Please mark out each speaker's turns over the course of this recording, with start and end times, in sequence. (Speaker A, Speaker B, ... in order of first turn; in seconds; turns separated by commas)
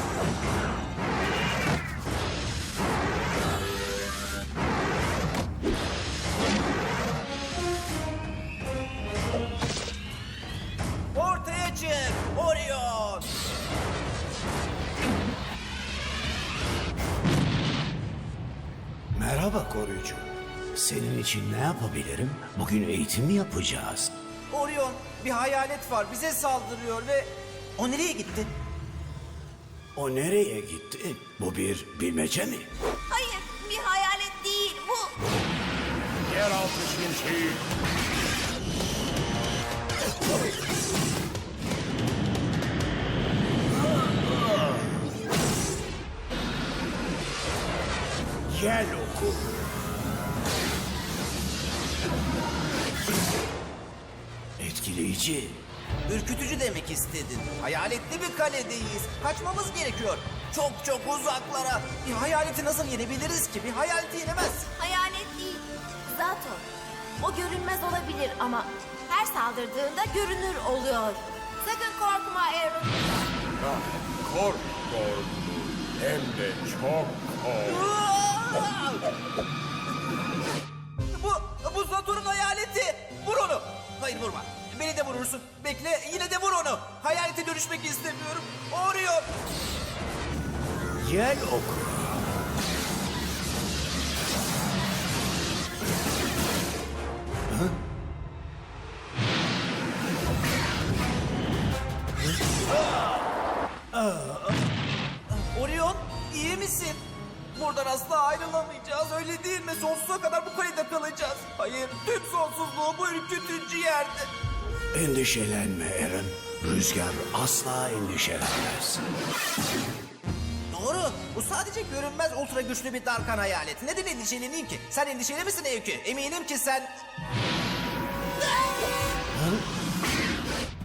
Speaker A: 11.1-13.3, Speaker B: 19.1-24.1, Speaker A: 24.5-28.5, Speaker B: 29.9-32.7, Speaker C: 33.1-35.1, Speaker D: 36.3-37.6, Speaker B: 48.5-49.7, Speaker B: 54.6-55.6, Speaker A: 56.1-64.7, Speaker C: 64.8-66.7, Speaker C: 67.2-73.1, Speaker D: 73.6-77.9, Speaker A: 77.7-79.0, Speaker A: 81.1-89.3, Speaker B: 91.0-92.2, Speaker B: 104.0-104.3, Speaker A: 105.3-107.0, Speaker A: 107.5-114.3, Speaker B: 114.9-119.0, Speaker A: 120.7-126.9